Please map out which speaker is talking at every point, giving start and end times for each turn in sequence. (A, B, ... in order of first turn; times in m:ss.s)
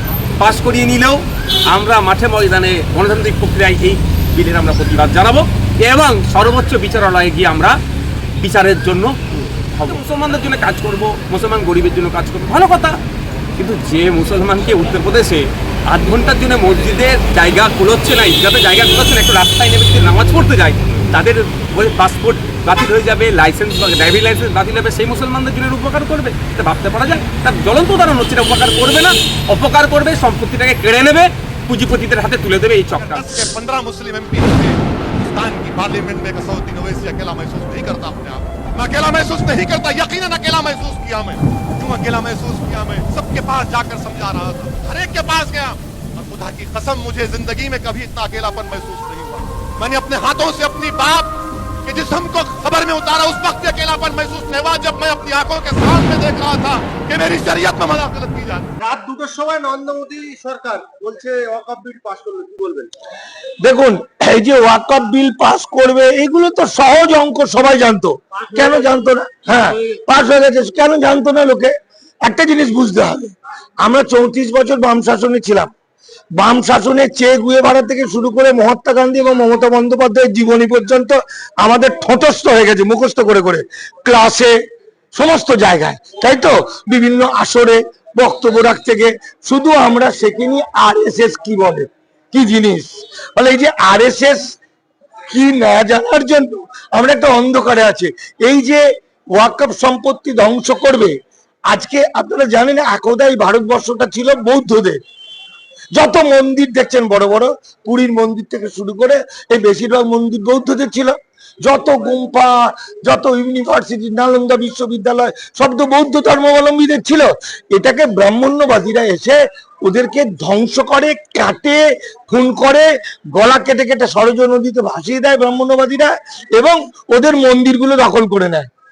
0:00.4-0:07.8 A
0:08.4-0:09.2 A
0:09.7-0:13.0 A
0:13.6-0:33.4 A
0:33.0-0:58.7 B
0:58.8-1:02.9 C
1:03.6-1:15.7 D
1:08.4-1:08.8 C
1:16.4-1:24.5 D
1:25.1-1:34.5 D
1:35.3-1:41.1 D
1:41.7-1:45.0 D
1:45.9-2:08.7 D